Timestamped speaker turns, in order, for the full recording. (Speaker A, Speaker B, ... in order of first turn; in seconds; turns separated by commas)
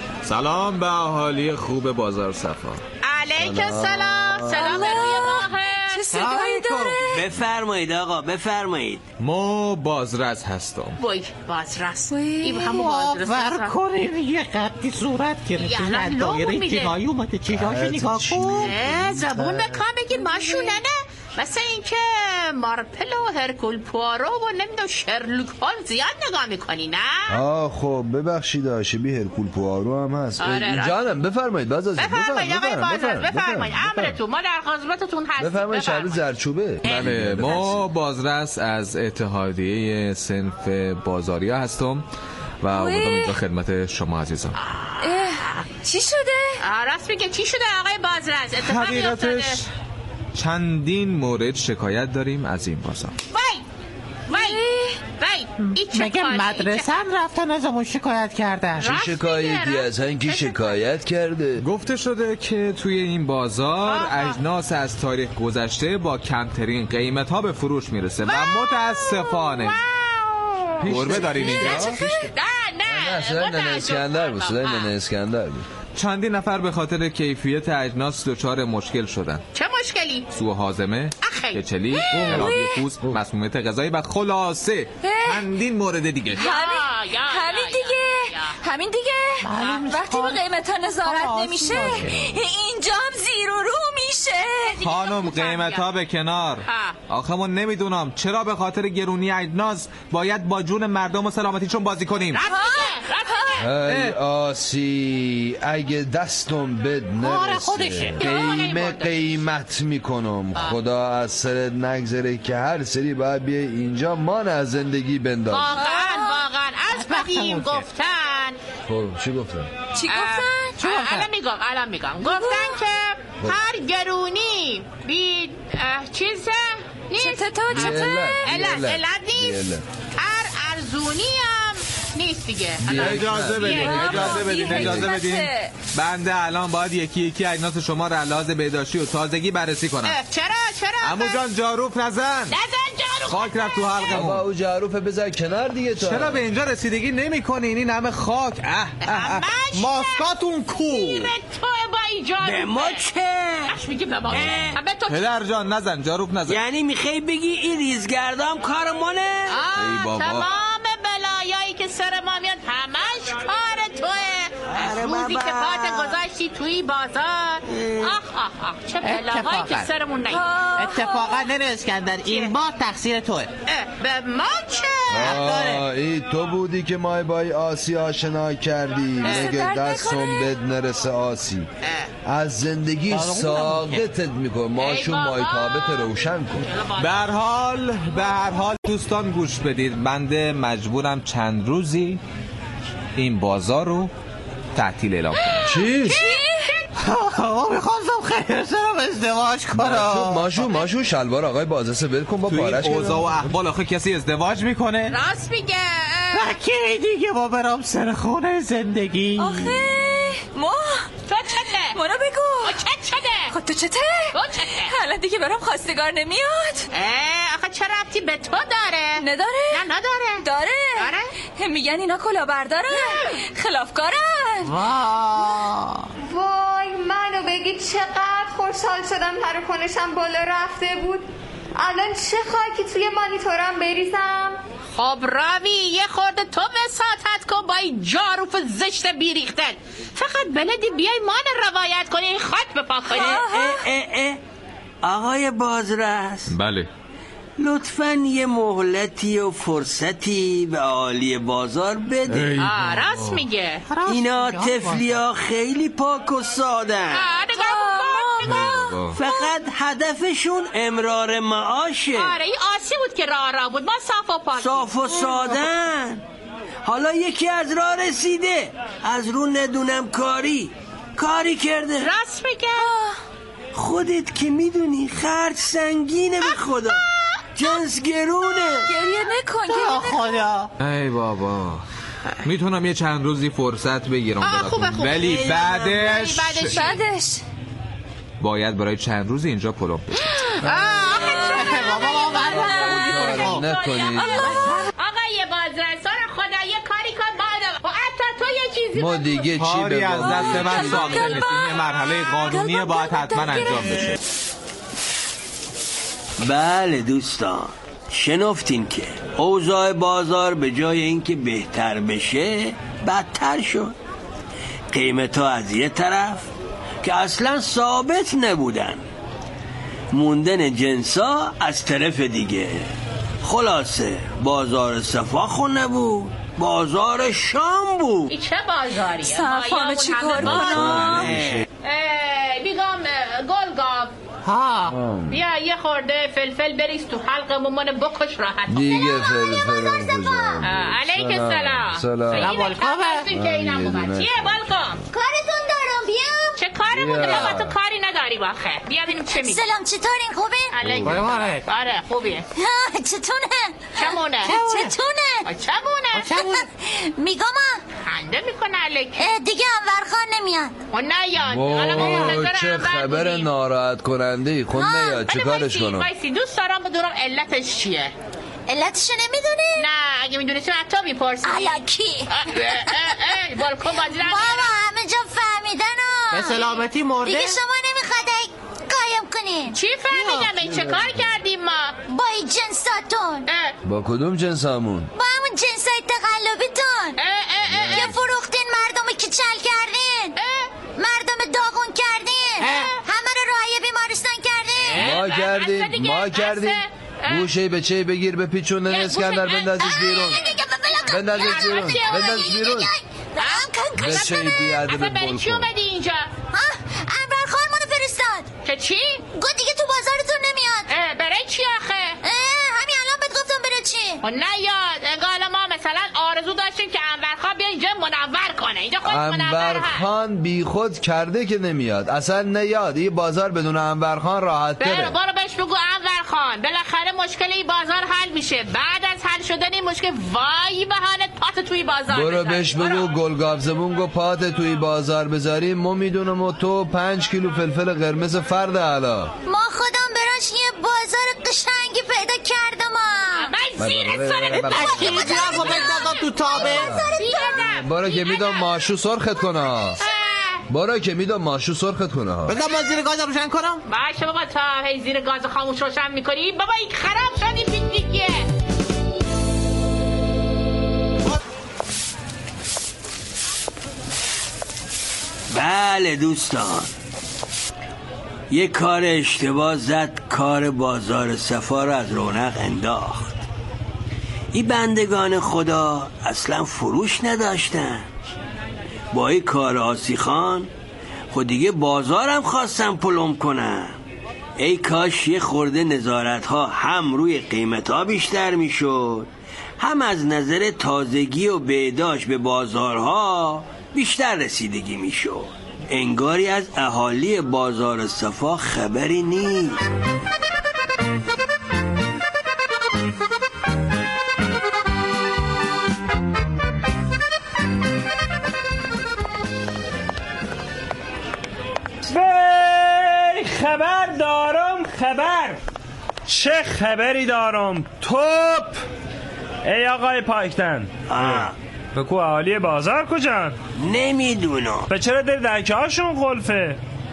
Speaker A: 0.2-2.8, Speaker B: 3.0-6.3, Speaker C: 3.4-4.8, Speaker D: 4.5-7.1, Speaker E: 6.1-7.0, Speaker F: 7.0-9.0, Speaker A: 9.2-11.0, Speaker B: 11.0-13.7, Speaker D: 12.1-12.7, Speaker E: 12.6-19.8, Speaker B: 15.6-16.9, Speaker C: 17.5-19.3, Speaker B: 18.6-27.4, Speaker C: 27.3-34.2, Speaker B: 30.4-31.0, Speaker B: 32.0-36.2, Speaker C: 35.4-37.9, Speaker B: 36.8-37.7, Speaker A: 36.8-42.0, Speaker A: 42.6-44.6, Speaker D: 42.7-43.4, Speaker B: 44.5-45.6, Speaker D: 45.0-46.6, Speaker B: 46.6-49.6, Speaker A: 48.6-49.6, Speaker A: 50.3-53.1, Speaker B: 53.3-53.6, Speaker B: 54.3-54.6, Speaker D: 54.3-55.0, Speaker B: 55.1-56.9, Speaker E: 55.6-58.9, Speaker B: 58.8-60.8, Speaker C: 58.8-61.6, Speaker A: 61.6-69.8, Speaker B: 63.8-64.4, Speaker B: 68.2-74.9, Speaker C: 70.8-72.3, Speaker A: 70.8-71.9, Speaker C: 72.8-75.7, Speaker A: 75.9-79.4, Speaker B: 79.5-80.3, Speaker A: 80.3-86.4, Speaker B: 81.2-82.4, Speaker D: 82.1-82.8, Speaker C: 82.2-83.2, Speaker D: 85.0-85.5, Speaker B: 86.3-88.5, Speaker D: 86.3-94.8, Speaker E: 89.4-92.1, Speaker B: 94.6-95.9, Speaker A: 94.8-102.4, Speaker B: 96.6-97.0, Speaker B: 102.3-103.7, Speaker D: 102.3-103.5, Speaker C: 103.6-115.8, Speaker A: 103.8-104.2, Speaker E: 107.2-108.2, Speaker B: 108.2-109.3, Speaker B: 115.5-118.6, Speaker D: 115.8-116.4, Speaker E: 116.9-117.9, Speaker C: 118.9-119.7, Speaker D: 119.9-120.9, Speaker B: 120.1-129.6, Speaker E: 120.9-121.2, Speaker D: 122.2-122.7, Speaker D: 127.1-128.4, Speaker C: 127.7-129.8, Speaker B: 130.2-134.3, Speaker C: 132.8-135.2, Speaker A: 132.9-140.2, Speaker D: 133.6-135.7, Speaker B: 140.0-141.4, Speaker A: 141.0-142.4, Speaker E: 141.9-142.2, Speaker B: 142.5-144.2, Speaker A: 143.3-144.4, Speaker C: 144.1-146.4, Speaker A: 146.0-149.2, Speaker B: 149.0-150.3, Speaker E: 149.7-151.3, Speaker B: 150.9-153.0, Speaker F: 152.4-153.7, Speaker B: 153.7-155.3, Speaker F: 154.3-154.8, Speaker A: 155.1-156.6, Speaker F: 156.4-159.6, Speaker B: 159.5-170.4, Speaker A: 159.8-160.5, Speaker F: 164.7-166.2, Speaker F: 167.7-168.1, Speaker E: 169.0-169.9, Speaker D: 170.3-171.5, Speaker E: 170.7-173.5, Speaker B: 172.2-172.5, Speaker B: 173.7-175.4, Speaker C: 175.1-181.7, Speaker E: 175.2-175.8, Speaker D: 179.2-180.5, Speaker B: 179.2-179.6, Speaker B: 181.8-182.1, Speaker C: 182.2-186.7, Speaker E: 183.1-184.0, Speaker B: 184.8-187.3, Speaker A: 187.0-192.2, Speaker A: 193.2-194.1, Speaker A: 194.7-195.8, Speaker C: 195.7-196.2, Speaker B: 196.0-196.9, Speaker D: 196.1-196.7, Speaker E: 197.0-200.7, Speaker C: 199.7-203.4, Speaker A: 202.5-205.1, Speaker B: 205.1-206.5, Speaker E: 206.3-209.8, Speaker D: 209.4-211.1, Speaker B: 211.3-212.0, Speaker D: 211.9-212.8, Speaker B: 212.6-213.5, Speaker D: 213.5-216.9, Speaker B: 214.3-214.9, Speaker B: 216.9-221.3, Speaker D: 219.2-219.8, Speaker D: 220.4-224.8, Speaker B: 222.9-223.3, Speaker E: 224.6-226.1, Speaker G: 226.3-234.6, Speaker B: 234.9-243.4, Speaker D: 243.1-243.8, Speaker F: 243.2-244.4, Speaker F: 245.0-246.5, Speaker A: 246.5-246.9, Speaker F: 247.6-252.6, Speaker A: 252.3-253.4, Speaker B: 252.6-253.8, Speaker E: 253.9-255.2, Speaker F: 254.1-257.3, Speaker B: 257.1-259.5, Speaker D: 257.5-258.7, Speaker A: 258.4-259.2, Speaker F: 259.1-262.3, Speaker B: 262.1-264.9, Speaker F: 264.6-266.2, Speaker F: 266.8-272.1, Speaker B: 272.0-272.9, Speaker D: 272.8-273.2, Speaker F: 273.7-277.0, Speaker B: 276.4-277.7, Speaker F: 277.6-278.9, Speaker D: 278.9-280.4, Speaker E: 279.6-280.7, Speaker A: 280.8-281.8, Speaker A: 282.4-286.8, Speaker B: 284.4-287.0, Speaker F: 285.1-286.1, Speaker D: 286.7-287.4, Speaker A: 288.4-290.1, Speaker B: 290.6-299.6, Speaker D: 291.2-293.4, Speaker E: 291.4-293.6, Speaker C: 292.5-294.6, Speaker D: 294.1-294.9, Speaker E: 294.5-294.9, Speaker C: 298.9-301.3, Speaker A: 299.6-304.2, Speaker E: 299.6-300.6, Speaker D: 300.2-304.2, Speaker E: 301.9-302.7, Speaker E: 303.4-303.6, Speaker F: 306.4-313.9, Speaker F: 314.9-316.5, Speaker F: 317.0-319.0, Speaker F: 320.1-322.9, Speaker F: 323.4-328.3, Speaker B: 328.3-331.2, Speaker D: 329.2-331.4, Speaker C: 330.4-331.6, Speaker F: 330.4-331.6, Speaker B: 331.8-334.1, Speaker E: 334.4-335.0, Speaker C: 334.9-335.4, Speaker B: 335.3-339.3, Speaker C: 338.7-342.6, Speaker H: 338.9-340.6, Speaker B: 340.6-345.0, Speaker E: 342.3-343.2, Speaker C: 343.3-344.7, Speaker H: 345.1-346.6, Speaker B: 346.6-349.7, Speaker C: 346.9-347.8, Speaker H: 347.2-347.5, Speaker H: 349.2-350.7, Speaker B: 350.7-352.4, Speaker C: 350.8-351.3, Speaker E: 351.0-351.7, Speaker H: 352.5-355.5, Speaker B: 353.9-354.6, Speaker E: 354.4-355.0, Speaker B: 355.4-356.3, Speaker E: 356.1-356.6, Speaker H: 356.4-357.8, Speaker B: 358.0-359.3, Speaker H: 359.2-360.7, Speaker B: 360.9-363.5, Speaker C: 361.4-366.1, Speaker E: 361.9-362.4, Speaker H: 364.7-365.2, Speaker B: 365.2-368.1, Speaker H: 368.7-369.9, Speaker B: 369.7-374.7, Speaker H: 371.4-373.1, Speaker H: 374.2-379.8, Speaker E: 376.3-377.6, Speaker B: 379.7-382.0, Speaker E: 380.1-380.7, Speaker C: 380.7-381.2, Speaker H: 382.1-383.5, Speaker B: 383.4-383.7, Speaker C: 383.8-385.1, Speaker H: 385.1-387.2, Speaker B: 387.1-388.1, Speaker C: 387.6-388.3, Speaker H: 387.9-390.4, Speaker B: 390.4-390.7, Speaker H: 390.9-395.0, Speaker B: 392.6-392.9, Speaker E: 392.6-392.9, Speaker E: 394.8-395.2, Speaker B: 394.9-397.5, Speaker C: 394.9-400.4, Speaker B: 398.9-402.5, Speaker H: 398.9-404.4, Speaker C: 401.1-402.9, Speaker B: 403.4-406.3, Speaker C: 403.9-405.7, Speaker H: 406.5-408.5, Speaker B: 408.6-409.2, Speaker H: 409.3-410.9, Speaker B: 410.9-412.2, Speaker H: 412.2-414.2, Speaker B: 414.2-420.0, Speaker C: 419.0-425.1, Speaker B: 424.8-433.1, Speaker C: 432.1-439.3, Speaker H: 439.4-443.5, Speaker B: 443.3-446.3, Speaker C: 443.8-445.8, Speaker E: 444.5-446.9, Speaker H: 444.9-447.6, Speaker C: 446.5-450.0, Speaker B: 447.1-448.8, Speaker B: 450.0-450.6, Speaker C: 450.7-452.6, Speaker E: 452.5-453.8, Speaker B: 453.9-458.4, Speaker F: 465.5-466.9, Speaker F: 468.5-473.4, Speaker F: 474.5-478.1, Speaker F: 479.1-480.7, Speaker F: 481.3-483.9, Speaker F: 484.6-489.3, Speaker F: 489.8-499.8, Speaker I: 512.0-515.6, Speaker I: 516.3-518.8, Speaker I: 519.6-523.6, Speaker F: 521.1-521.5, Speaker F: 523.8-524.9, Speaker I: 524.9-526.8